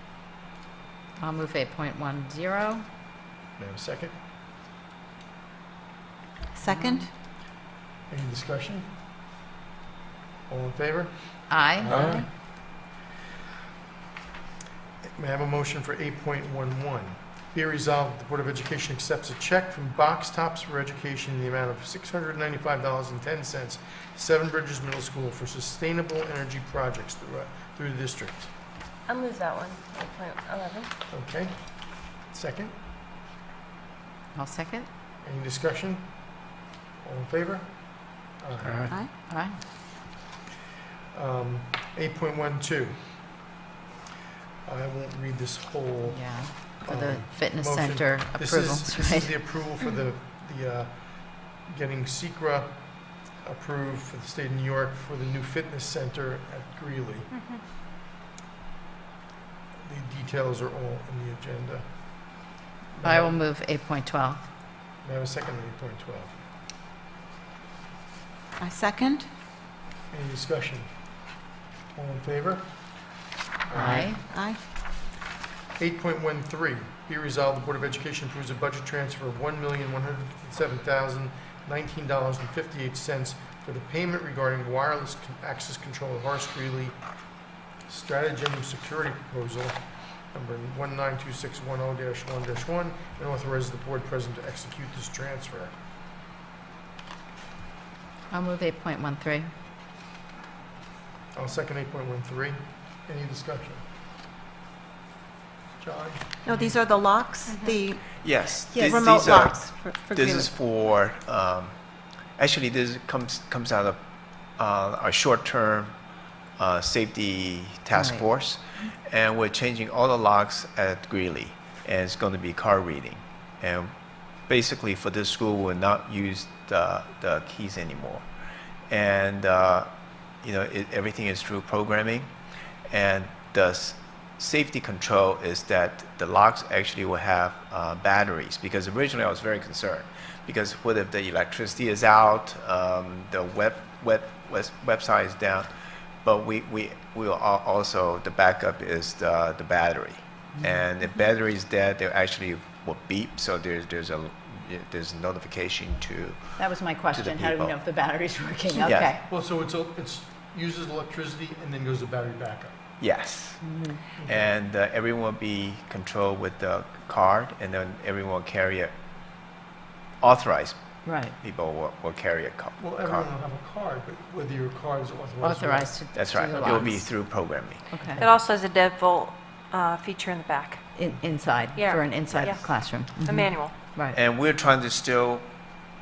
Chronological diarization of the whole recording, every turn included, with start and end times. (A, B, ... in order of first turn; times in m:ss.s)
0:01.2-0:02.8 A
0:03.6-0:04.1 B
0:06.5-0:07.1 C
0:06.6-0:07.1 A
0:08.1-0:08.9 B
0:10.5-0:12.3 B
0:11.5-0:12.1 A
0:11.9-0:12.3 C
0:15.2-0:28.5 B
0:29.1-0:30.9 D
0:31.1-0:32.7 B
0:34.3-0:34.9 A
0:35.2-0:36.2 B
0:37.0-0:38.9 B
0:38.7-0:39.1 C
0:39.3-0:39.6 A
0:41.1-0:43.0 B
0:44.6-0:52.8 B
0:46.0-0:49.4 A
0:53.4-0:57.3 B
0:59.8-1:01.8 B
1:03.0-1:03.4 B
1:03.0-1:04.4 A
1:05.0-1:06.4 B
1:08.6-1:09.3 C
1:10.1-1:10.9 B
1:11.9-1:12.8 B
1:13.7-1:14.1 B
1:13.7-1:14.2 A
1:14.2-1:14.6 C
1:15.8-1:27.0 B
1:27.9-1:29.8 B
1:30.3-1:35.7 B
1:38.3-1:39.5 A
1:41.3-1:43.8 B
1:45.8-1:46.8 B
1:46.4-1:48.0 C
1:47.5-1:47.8 D
1:48.2-1:51.8 E
1:48.7-1:50.5 C
1:52.4-1:54.0 E
1:54.6-1:55.9 E
1:56.6-2:03.9 E
1:58.0-1:58.2 A
2:04.4-2:08.2 E
2:08.9-2:09.9 E
2:10.4-2:12.3 E
2:12.9-2:25.7 E
2:26.2-2:36.6 E
2:36.6-2:39.2 A
2:37.1-2:37.8 E
2:38.8-2:39.1 E
2:39.2-2:42.8 B
2:43.0-2:43.6 E
2:43.6-2:44.0 A
2:44.2-2:44.5 B
2:44.2-2:48.9 E
2:50.2-2:50.8 E
2:51.0-2:51.3 A
2:51.4-2:53.3 E
2:52.8-2:55.9 B
2:55.4-2:57.1 A
2:56.1-2:57.8 E
2:56.6-2:56.8 B
2:57.9-2:58.2 A
2:58.2-3:00.8 D
3:01.0-3:04.2 A
3:01.7-3:02.7 D
3:02.3-3:02.6 E
3:03.2-3:03.8 D
3:04.1-3:05.4 E